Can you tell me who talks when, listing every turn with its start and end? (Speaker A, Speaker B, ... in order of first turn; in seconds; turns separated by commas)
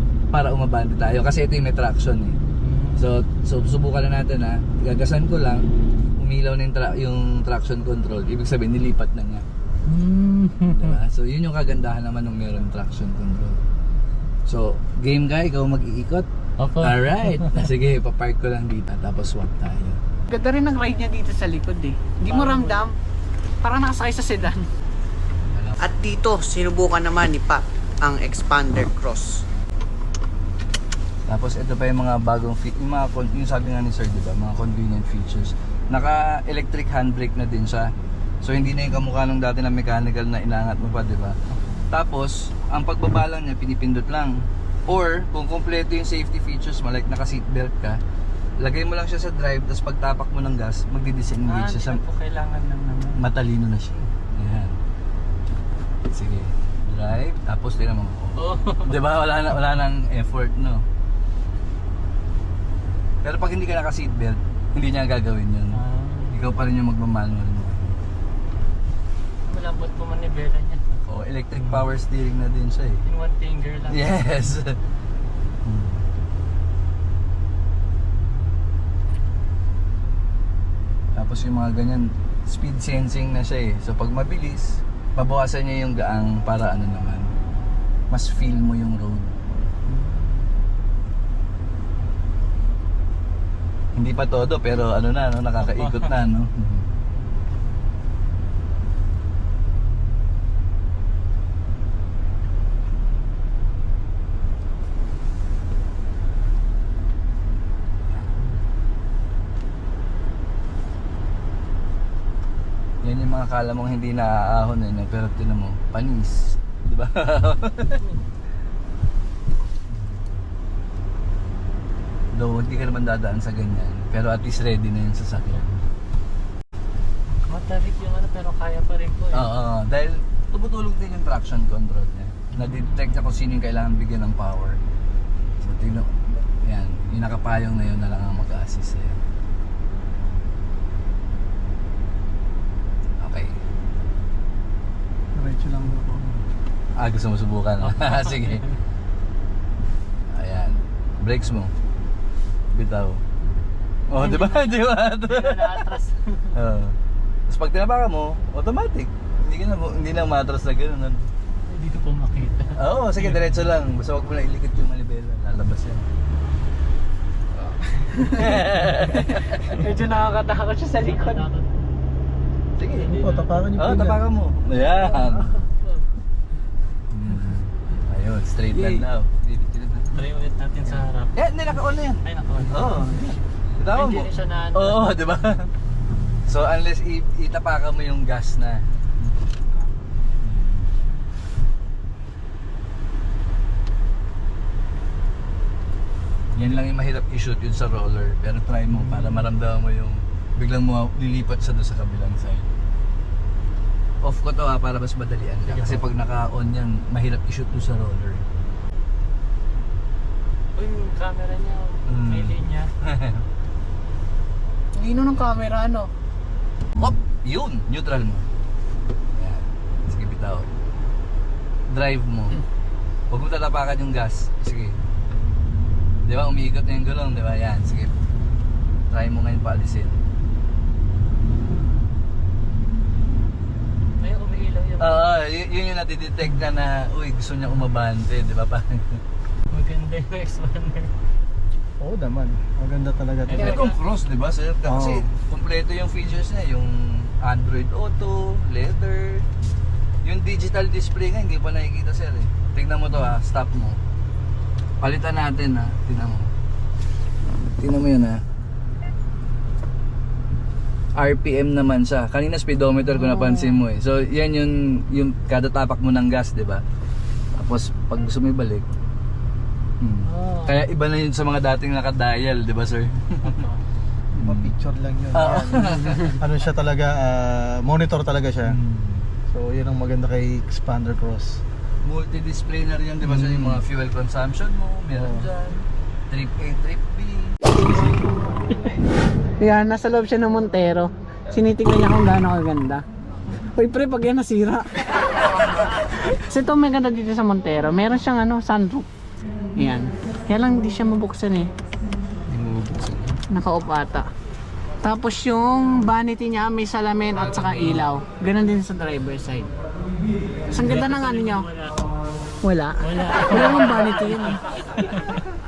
Speaker A: 0.3-2.4, Speaker B: 2.6-3.1, Speaker A: 3.0-5.7, Speaker A: 6.2-9.4, Speaker B: 9.9-11.0, Speaker A: 10.7-13.6, Speaker A: 14.5-16.3, Speaker B: 16.6-17.7, Speaker A: 16.8-20.0, Speaker C: 20.3-22.9, Speaker B: 22.3-22.9, Speaker C: 23.6-24.7, Speaker A: 25.5-25.8, Speaker D: 25.8-29.4, Speaker A: 31.3-37.9, Speaker A: 38.4-41.4, Speaker A: 41.9-44.3, Speaker A: 44.9-48.0, Speaker A: 48.6-52.0, Speaker B: 51.5-53.3, Speaker A: 53.2-54.8, Speaker A: 56.1-60.8, Speaker B: 58.4-59.0, Speaker A: 63.2-65.8, Speaker B: 65.7-66.4, Speaker A: 66.3-68.0, Speaker B: 69.5-71.0, Speaker A: 71.1-73.0, Speaker B: 71.5-71.9, Speaker B: 73.1-74.1, Speaker A: 73.9-74.8, Speaker A: 75.7-76.0, Speaker A: 81.2-87.3, Speaker A: 88.1-89.3, Speaker B: 89.9-90.4, Speaker A: 94.0-96.9, Speaker B: 95.6-96.1, Speaker A: 113.0-118.0, Speaker B: 118.0-118.2, Speaker A: 122.3-125.8, Speaker B: 127.3-129.5, Speaker A: 129.3-134.8, Speaker B: 132.6-133.2, Speaker A: 135.6-139.2, Speaker A: 143.2-143.6, Speaker E: 145.3-146.2, Speaker A: 147.0-148.7, Speaker B: 147.8-148.8, Speaker A: 150.3-151.7, Speaker A: 152.8-153.2, Speaker A: 154.1-155.9, Speaker B: 154.2-156.6, Speaker A: 156.5-157.0, Speaker A: 157.5-161.3, Speaker B: 161.7-163.6, Speaker A: 162.8-166.1, Speaker C: 168.2-168.6, Speaker A: 168.4-169.8, Speaker C: 169.7-171.5, Speaker B: 171.0-171.8, Speaker A: 172.8-173.1, Speaker B: 172.9-173.7, Speaker E: 173.0-174.2, Speaker A: 173.8-175.6, Speaker B: 174.8-176.0, Speaker A: 177.1-179.3, Speaker F: 178.7-180.2, Speaker B: 180.1-185.2, Speaker A: 180.8-185.7, Speaker A: 186.5-188.8, Speaker A: 190.4-190.9, Speaker A: 196.6-202.7, Speaker B: 198.9-199.5, Speaker A: 204.2-208.4, Speaker B: 205.7-206.1, Speaker B: 210.8-212.9, Speaker A: 212.1-213.4, Speaker C: 215.0-216.1, Speaker A: 217.0-218.5, Speaker A: 219.4-220.7, Speaker A: 221.9-222.6, Speaker A: 223.3-225.0, Speaker A: 226.2-228.1, Speaker A: 229.1-230.2, Speaker B: 234.2-235.4, Speaker A: 235.0-239.2, Speaker B: 239.7-241.1, Speaker E: 242.0-243.8, Speaker B: 243.5-244.0, Speaker A: 243.5-249.5, Speaker E: 244.8-245.3, Speaker A: 250.2-254.0, Speaker A: 255.0-256.5, Speaker A: 257.8-258.4, Speaker A: 261.2-266.8, Speaker B: 263.1-263.8, Speaker A: 267.6-268.9, Speaker A: 270.0-273.6, Speaker B: 270.2-270.9, Speaker B: 273.4-273.8, Speaker E: 274.4-278.8, Speaker A: 274.4-274.7, Speaker A: 275.3-276.4, Speaker A: 278.6-279.3, Speaker E: 279.5-281.6, Speaker A: 282.0-288.2, Speaker E: 283.2-283.8, Speaker E: 285.1-285.5, Speaker C: 289.6-293.0, Speaker C: 293.7-294.9, Speaker C: 296.3-299.1, Speaker C: 299.8-301.7, Speaker F: 302.5-303.3, Speaker C: 303.5-304.3, Speaker C: 305.0-309.7, Speaker F: 307.4-308.1, Speaker C: 310.7-311.7, Speaker B: 310.7-312.1, Speaker C: 312.6-314.6, Speaker B: 313.0-315.4